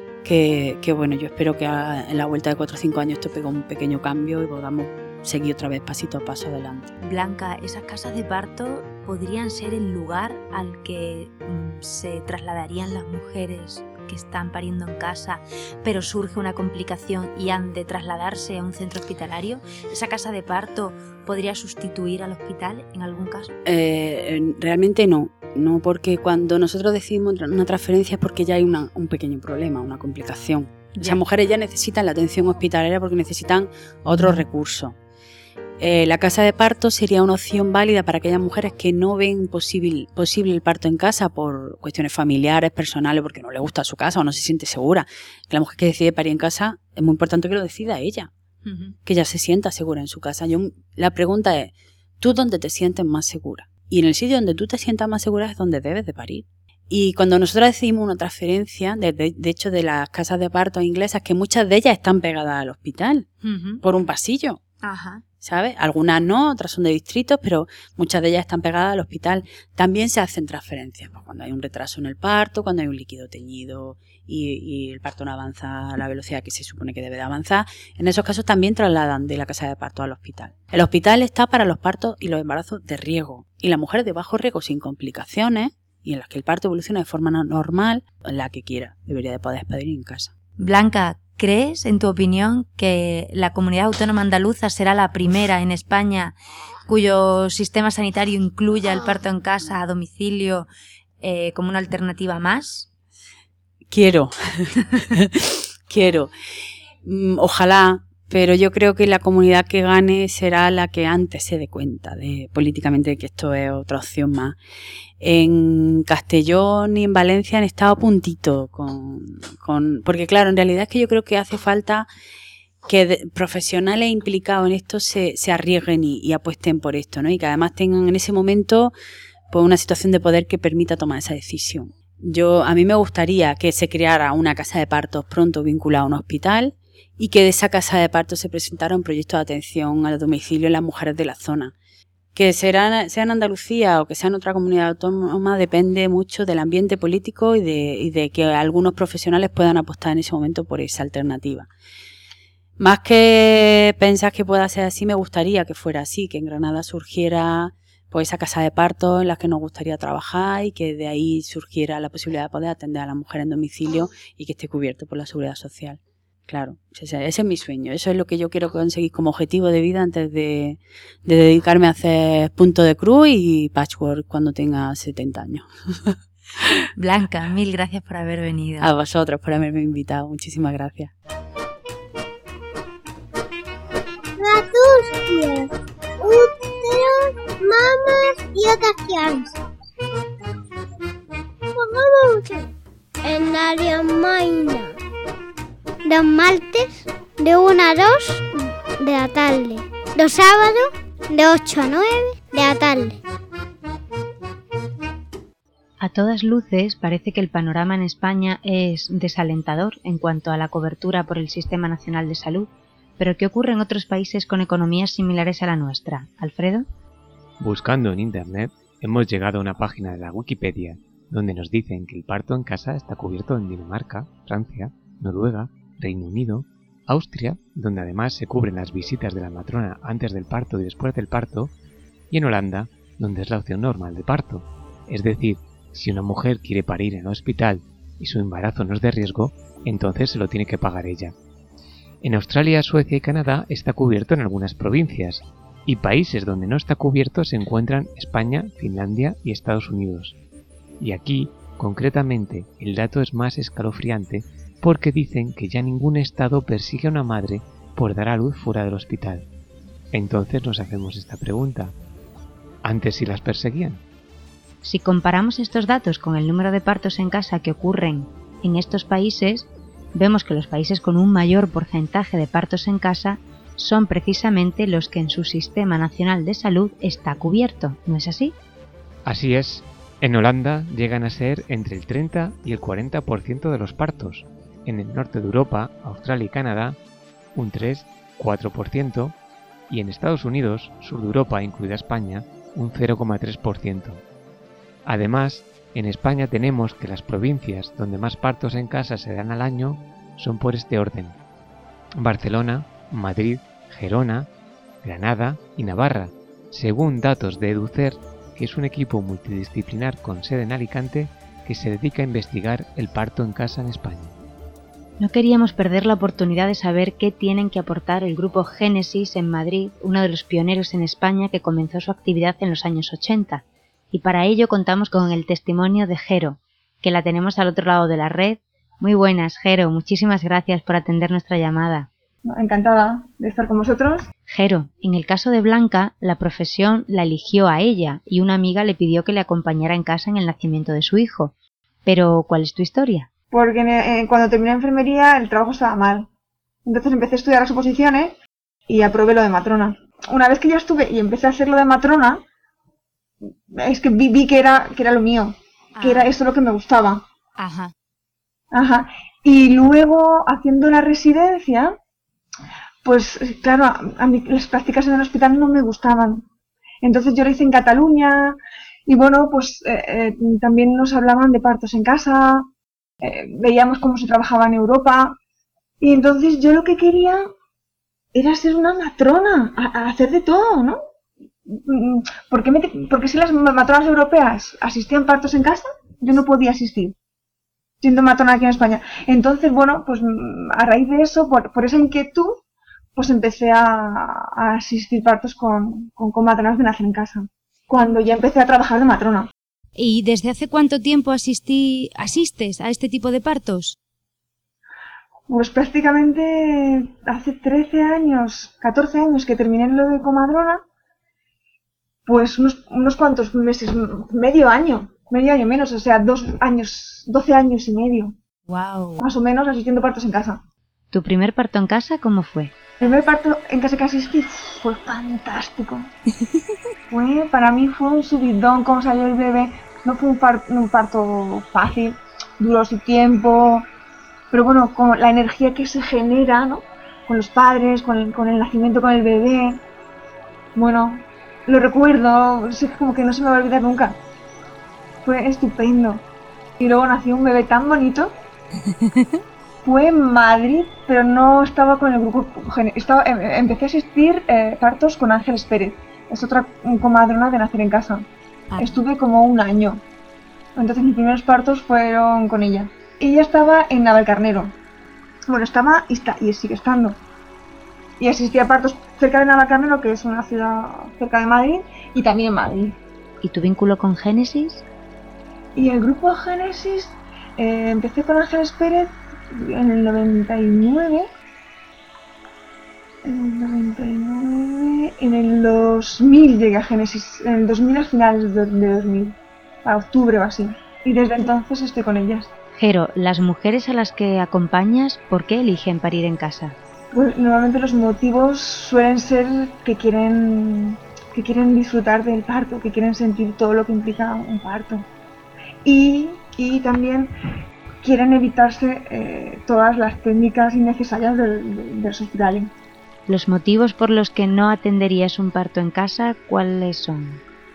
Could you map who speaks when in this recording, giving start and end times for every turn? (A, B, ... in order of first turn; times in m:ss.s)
0:00.2-0:06.9 A
0:07.0-0:23.5 B
0:23.6-0:35.0 A
0:35.8-0:48.3 A
0:48.6-0:49.0 B
0:49.0-1:03.3 A
1:03.4-1:03.8 B
1:03.8-1:04.6 A
1:04.8-1:05.2 B
1:05.4-1:30.3 A
1:30.6-1:40.7 B
1:41.2-1:42.9 B
1:43.9-1:46.3 A
1:47.0-1:54.6 A
1:55.2-2:02.1 A
2:02.8-2:08.9 A
2:09.5-2:21.7 A
2:22.3-2:31.7 A
2:32.8-2:56.8 A
2:57.0-2:58.9 B
2:58.8-3:01.1 A
3:04.4-3:09.6 C
3:11.7-3:12.7 C
3:13.2-3:15.0 C
3:16.0-3:18.5 C
3:19.0-3:23.2 C
3:26.0-3:36.8 B
3:37.6-3:51.7 D
3:52.3-4:01.3 D
4:02.2-4:10.4 D
4:11.0-4:19.4 D
4:20.1-4:21.9 D
4:22.8-4:24.0 D
4:24.8-4:38.6 B
4:39.2-4:47.0 D
4:47.5-4:49.3 D
4:49.9-4:54.2 D
4:55.0-5:01.4 D
5:02.2-5:04.5 D
5:05.0-5:14.3 D
5:15.2-5:32.1 B
5:32.4-5:34.3 E
5:34.5-5:43.3 B
5:43.5-5:46.3 E
5:46.8-5:48.4 E
5:48.9-5:52.4 E
5:53.7-5:57.2 E
5:56.0-5:56.3 B
5:57.6-5:57.9 B
5:58.7-6:02.0 E
6:03.0-6:06.4 E
6:07.0-6:12.7 E
6:13.2-6:15.4 E
6:16.0-6:17.4 E
6:18.3-6:21.0 E
6:21.7-6:27.1 E
6:28.0-6:32.6 E
6:33.2-6:39.5 E
6:40.0-6:44.0 B
6:45.5-6:50.8 E
6:52.2-6:58.3 E
6:58.7-6:59.2 B
6:59.2-7:00.6 E
7:01.1-7:02.7 B
7:03.0-7:06.1 E
7:07.1-7:13.8 E
7:14.5-7:19.8 E
7:20.7-7:24.2 E
7:25.2-7:26.2 E
7:26.8-7:28.3 E
7:29.0-7:29.3 B
7:29.8-7:38.2 E
7:38.7-7:39.0 B
7:38.8-7:40.0 E
7:40.7-7:44.8 E
7:45.5-7:47.2 E
7:48.2-7:53.0 E
7:53.4-7:54.8 B
7:55.8-8:01.3 E
8:03.2-8:12.5 E
8:12.8-8:16.8 B
8:17.1-8:25.1 E
8:25.8-8:27.3 E
8:28.0-8:32.7 E
8:33.3-8:37.4 B